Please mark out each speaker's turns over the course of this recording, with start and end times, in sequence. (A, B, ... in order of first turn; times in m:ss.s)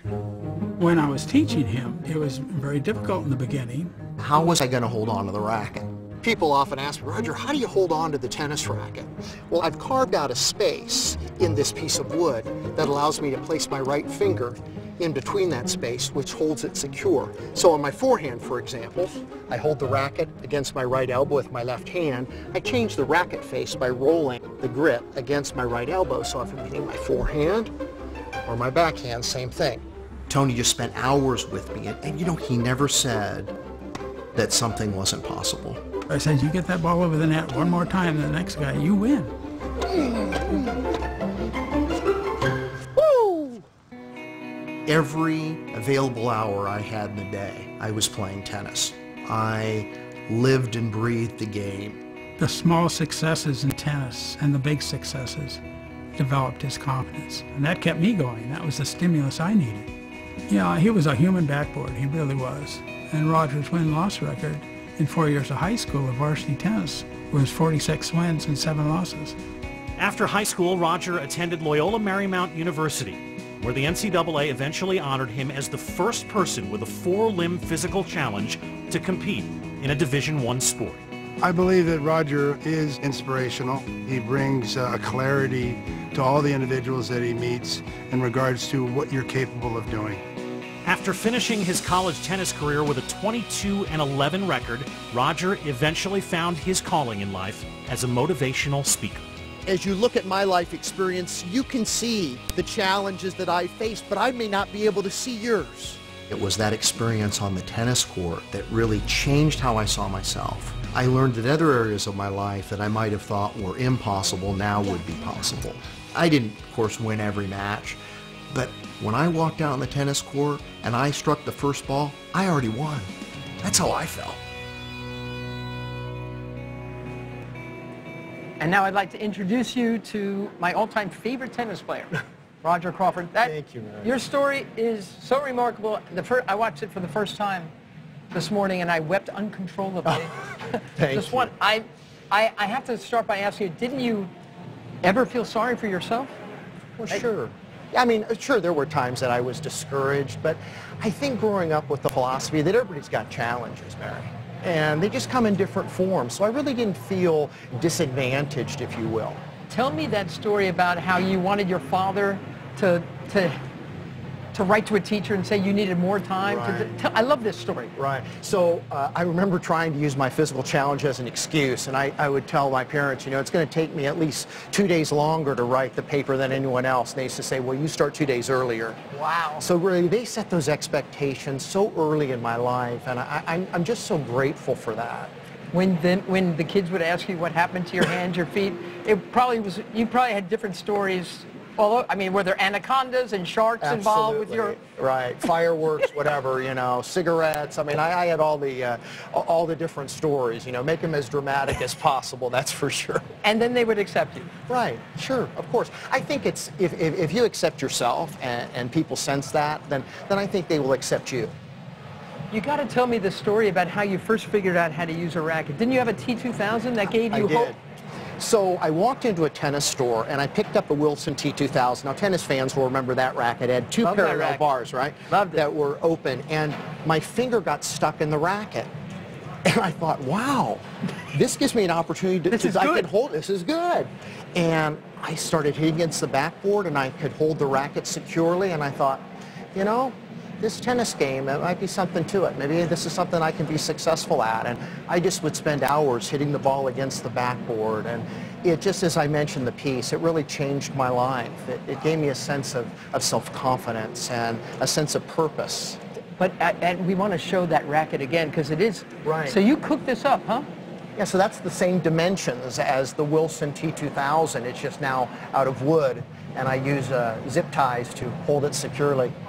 0:00.8-0:03.9 A
0:04.2-0:27.7 B
0:28.5-0:33.6 B
0:34.4-0:35.8 B
0:36.1-0:39.3 A
0:43.0-0:43.6 B
0:44.9-0:52.0 B
0:52.4-0:55.6 A
0:56.2-0:59.9 A
1:00.5-1:09.4 A
1:10.0-1:21.0 C
1:21.4-1:30.2 D
1:30.8-1:39.2 C
1:39.7-1:58.0 B
1:58.5-2:03.1 B
2:03.6-2:04.4 B
2:08.6-2:17.7 E
2:13.4-2:14.2 B
2:18.3-2:20.4 E
2:21.0-2:21.5 B
2:21.1-2:24.3 E
2:25.0-2:26.3 E
2:27.0-2:39.4 B
2:39.7-2:43.6 E
2:44.5-2:47.9 E
2:46.4-2:46.9 B
2:48.0-3:05.3 B
2:59.2-2:59.6 E
3:05.7-3:14.8 E
3:13.8-3:23.2 B
3:23.4-3:24.5 E
3:24.7-3:31.5 B
3:32.5-3:37.7 E
3:37.2-3:37.8 B
3:38.4-3:48.9 B
3:44.0-3:44.6 E
3:45.3-3:45.6 E
3:49.7-4:16.0 B
3:52.5-3:53.1 E
4:16.4-4:20.7 E
4:19.2-4:19.6 B
4:21.2-4:29.3 B